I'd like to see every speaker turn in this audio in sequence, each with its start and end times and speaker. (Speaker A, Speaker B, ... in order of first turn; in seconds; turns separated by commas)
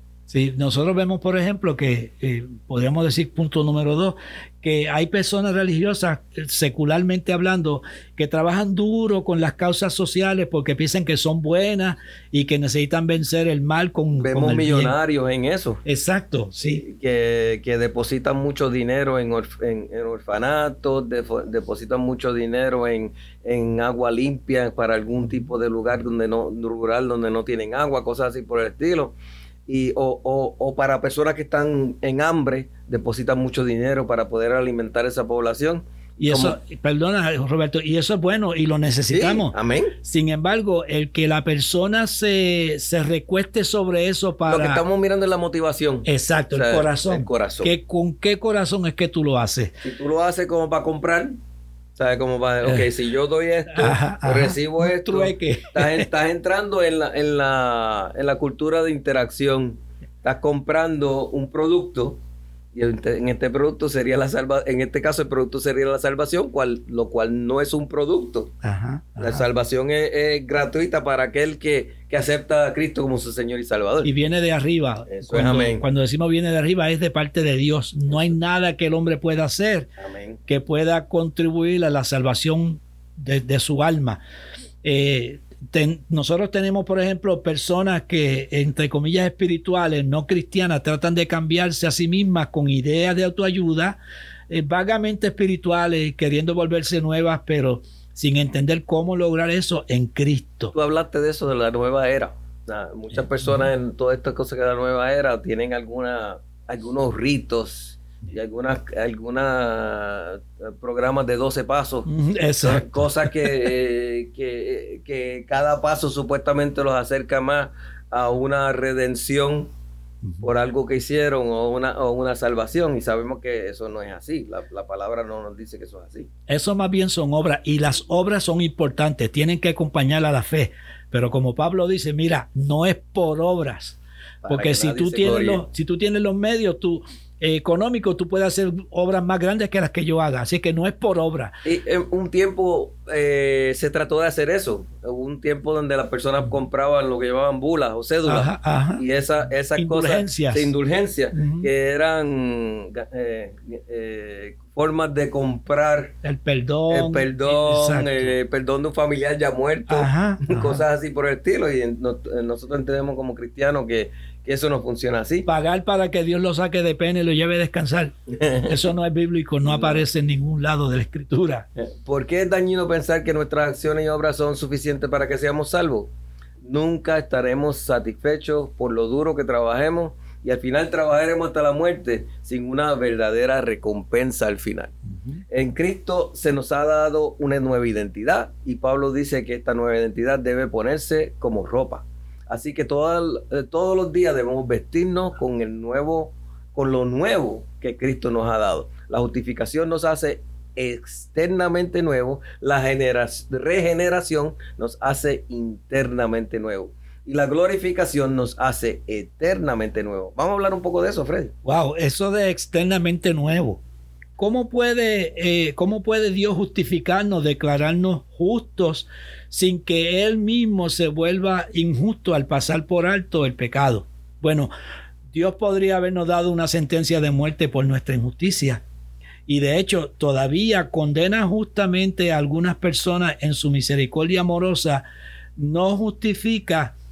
Speaker A: 0.3-14.9, Speaker B: 14.2-15.8, Speaker A: 15.8-16.8, Speaker B: 16.6-36.6, Speaker A: 36.2-44.8, Speaker B: 39.1-40.0, Speaker B: 44.5-47.7, Speaker A: 46.0-49.7, Speaker B: 49.8-51.4, Speaker B: 52.0-62.2, Speaker A: 53.7-56.1, Speaker B: 62.7-68.5, Speaker A: 68.6-69.4, Speaker B: 69.2-74.1, Speaker A: 74.0-79.9, Speaker B: 75.1-75.8, Speaker B: 78.1-78.4, Speaker B: 80.0-80.4, Speaker A: 80.5-84.2, Speaker A: 84.8-100.7, Speaker B: 100.7-119.7, Speaker A: 112.0-113.5, Speaker B: 120.4-126.3, Speaker A: 126.5-141.5, Speaker B: 134.4-135.6, Speaker B: 141.6-156.1, Speaker A: 148.2-149.1, Speaker A: 149.7-150.7, Speaker A: 151.3-151.7, Speaker A: 156.2-158.3, Speaker B: 156.9-165.5, Speaker A: 159.9-160.8, Speaker A: 165.4-168.1, Speaker B: 168.3-168.8, Speaker A: 168.7-171.7, Speaker B: 169.6-170.1, Speaker B: 171.8-176.1, Speaker B: 176.6-184.9, Speaker A: 185.1-185.4, Speaker B: 185.5-211.5, Speaker A: 211.6-213.8, Speaker A: 214.4-224.7, Speaker A: 225.3-228.8, Speaker A: 229.5-235.1, Speaker A: 235.6-236.9